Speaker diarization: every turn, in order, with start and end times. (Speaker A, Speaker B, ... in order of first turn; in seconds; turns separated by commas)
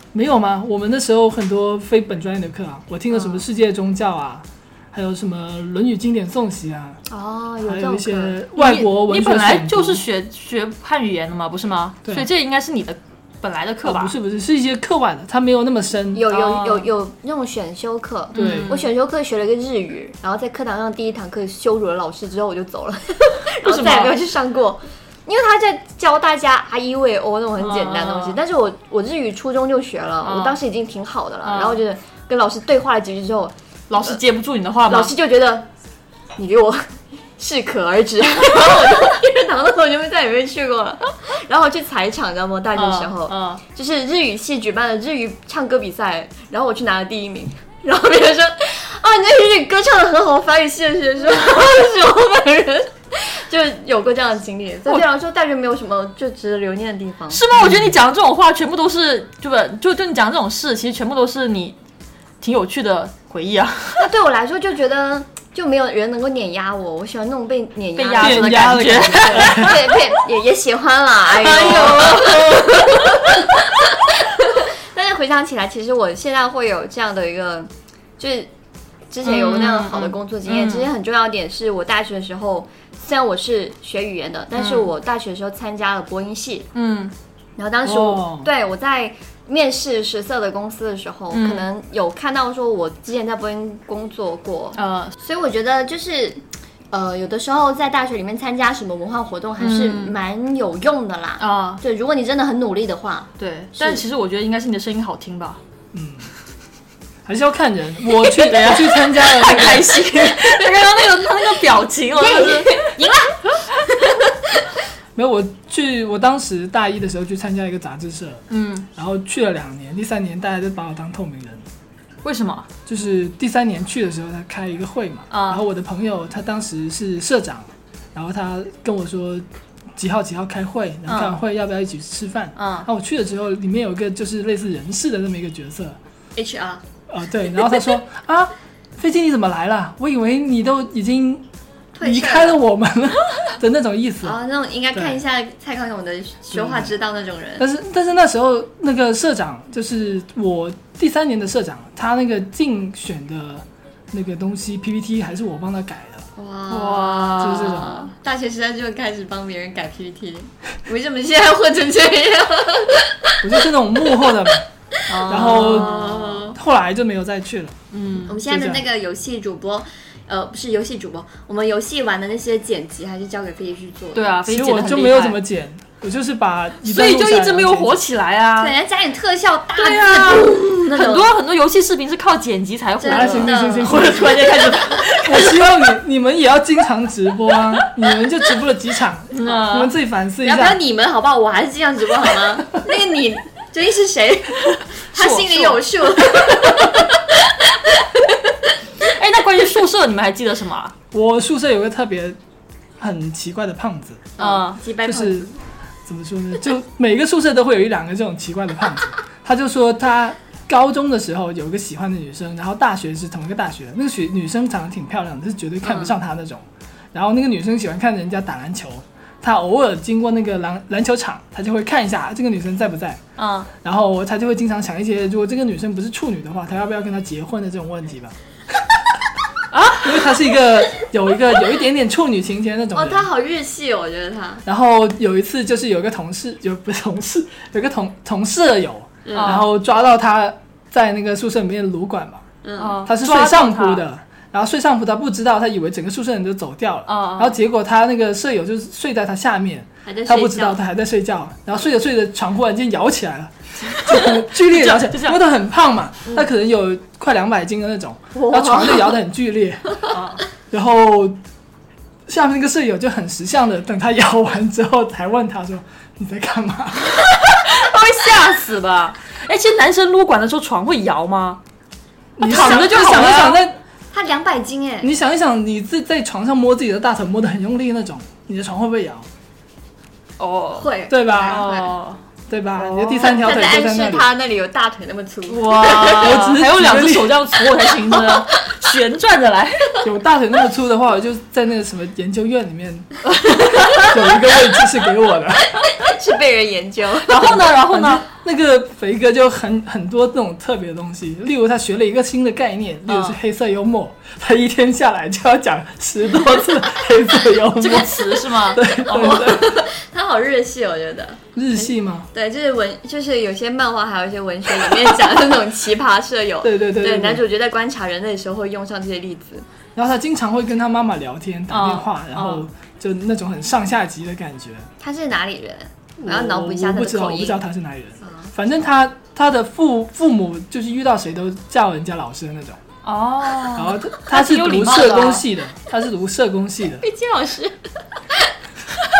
Speaker A: 0.1-7.0, Speaker B: 3.1-3.4, Speaker B: 7.1-8.4, Speaker A: 7.6-10.0, Speaker C: 8.5-14.1, Speaker A: 13.8-16.3, Speaker B: 16.1-34.2, Speaker C: 16.3-16.9, Speaker C: 18.3-18.9, Speaker A: 18.3-18.7, Speaker C: 23.6-24.2, Speaker C: 27.6-28.4, Speaker C: 30.2-30.6, Speaker C: 31.4-31.8, Speaker C: 33.9-35.1, Speaker B: 34.9-35.7, Speaker B: 36.4-57.5, Speaker C: 42.7-43.6, Speaker C: 57.3-61.8, Speaker A: 57.5-58.0, Speaker C: 62.4-64.0, Speaker B: 64.0-78.5, Speaker C: 68.0-69.8, Speaker A: 68.2-69.9, Speaker C: 71.4-73.2, Speaker B: 79.1-86.7, Speaker C: 79.2-80.9, Speaker C: 84.5-84.9, Speaker C: 86.7-87.1, Speaker B: 87.6-104.0, Speaker A: 87.8-88.5, Speaker C: 91.3-91.7, Speaker C: 94.7-95.1, Speaker C: 99.6-100.2, Speaker C: 101.4-101.8, Speaker C: 103.4-105.6, Speaker A: 105.9-106.3, Speaker A: 107.2-110.4, Speaker C: 108.2-112.9, Speaker B: 112.1-114.3, Speaker A: 115.1-118.4, Speaker C: 118.5-118.9, Speaker A: 118.9-121.6, Speaker C: 122.2-122.7, Speaker A: 122.8-136.0, Speaker C: 125.3-125.6, Speaker C: 131.1-131.4, Speaker C: 132.6-132.9, Speaker B: 136.3-136.8, Speaker A: 137.1-141.4, Speaker B: 141.9-142.6, Speaker A: 142.0-144.4, Speaker B: 144.2-147.7, Speaker A: 144.9-145.2, Speaker A: 146.5-146.9, Speaker A: 147.6-156.2, Speaker B: 156.3-163.5, Speaker C: 156.7-158.1, Speaker A: 157.4-158.0, Speaker A: 163.4-164.6, Speaker B: 165.0-166.6, Speaker C: 165.1-166.4, Speaker A: 165.3-167.8, Speaker C: 167.9-168.4, Speaker B: 168.3-174.3, Speaker A: 168.4-168.8, Speaker C: 174.1-175.4, Speaker A: 174.4-178.0, Speaker C: 176.8-178.7, Speaker B: 178.6-181.3, Speaker C: 179.8-185.7, Speaker B: 183.0-185.2, Speaker A: 183.0-190.8, Speaker C: 189.3-189.9, Speaker B: 190.4-198.5, Speaker C: 195.1-196.5, Speaker C: 199.0-200.9, Speaker A: 201.1-202.4, Speaker A: 203.0-204.3, Speaker B: 204.4-205.6, Speaker C: 204.4-204.8, Speaker A: 205.0-205.4, Speaker A: 206.1-223.2, Speaker B: 215.8-216.1, Speaker C: 223.4-223.7, Speaker A: 223.8-228.9, Speaker C: 229.7-230.3, Speaker A: 230.0-233.3, Speaker B: 232.9-234.6, Speaker A: 234.7-242.4, Speaker B: 239.2-239.6, Speaker C: 239.3-239.7, Speaker B: 242.6-243.0, Speaker C: 242.8-244.0, Speaker A: 243.0-260.0, Speaker C: 247.1-247.6, Speaker B: 250.0-250.8, Speaker C: 253.9-255.4, Speaker B: 258.3-259.1, Speaker C: 260.1-260.4, Speaker A: 260.7-261.4, Speaker A: 262.3-267.2, Speaker C: 267.3-271.6, Speaker A: 272.4-273.8, Speaker C: 272.4-273.6, Speaker B: 272.5-272.8, Speaker B: 274.1-275.1, Speaker A: 275.0-279.3, Speaker C: 280.4-282.2, Speaker B: 280.8-281.9, Speaker A: 281.1-281.7, Speaker A: 282.5-284.3, Speaker C: 282.8-283.4, Speaker B: 283.2-286.5, Speaker C: 285.5-289.9, Speaker A: 286.1-287.4, Speaker B: 288.1-288.7, Speaker A: 290.0-293.3, Speaker C: 293.5-294.1, Speaker B: 293.5-294.1, Speaker A: 293.9-295.8, Speaker B: 295.7-297.5, Speaker C: 297.2-298.2, Speaker A: 297.4-309.9, Speaker C: 303.1-303.4, Speaker C: 307.7-309.4, Speaker B: 308.9-319.6, Speaker A: 311.5-312.3, Speaker A: 316.6-317.4, Speaker A: 319.9-324.9, Speaker C: 321.7-322.6, Speaker B: 325.0-327.6, Speaker A: 326.2-332.8, Speaker B: 328.2-328.5, Speaker C: 333.0-335.4, Speaker A: 333.7-337.0, Speaker B: 337.0-337.8